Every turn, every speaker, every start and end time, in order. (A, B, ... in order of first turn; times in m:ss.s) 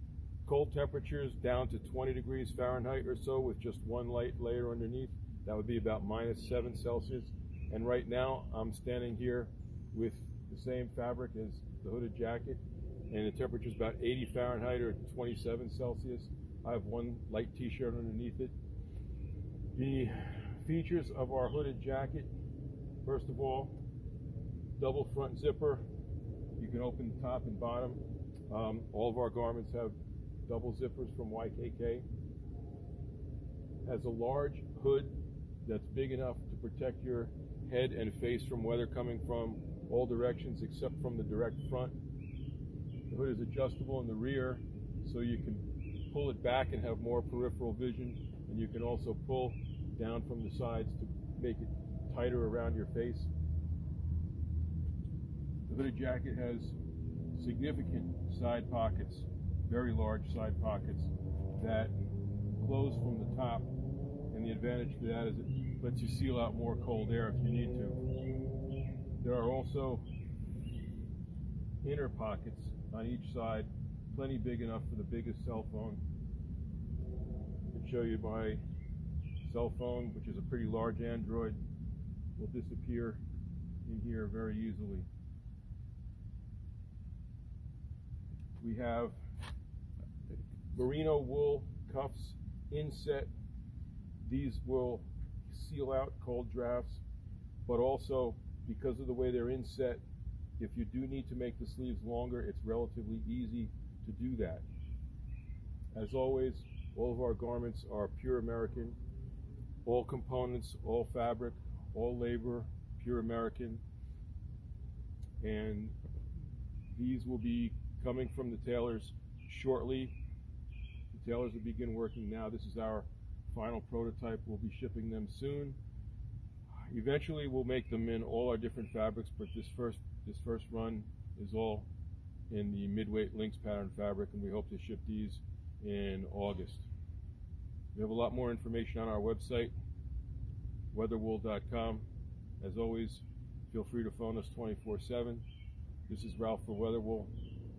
0:00.5-0:18.5 A
0:19.8-0:22.3 A
0:23.0-0:23.8 A
0:24.8-0:25.8 A
0:26.6-0:30.0 A
0:30.5-0:32.1 A
0:33.8-0:42.0 A
0:43.1-0:53.3 A
0:55.7-0:56.8 A
0:57.4-1:02.0 A
1:02.6-1:03.7 A
1:04.3-1:08.0 A
1:09.2-1:10.1 A
1:11.8-1:16.0 A
1:17.7-1:18.6 A
1:19.4-1:21.6 A
1:22.4-1:23.2 A
1:23.9-1:25.1 A
1:28.6-1:29.2 A
1:30.7-1:33.3 A
1:34.2-1:37.0 A
1:37.7-1:40.0 A
1:40.6-1:44.6 A
1:45.9-1:49.0 A
1:49.8-1:53.8 A
1:55.4-1:56.0 A
1:56.9-2:00.2 A
2:01.1-2:05.8 A
2:06.9-2:11.9 A
2:12.5-2:16.9 A
2:18.0-2:19.7 A
2:20.9-2:22.1 A
2:22.6-2:25.4 A
2:26.1-2:27.3 A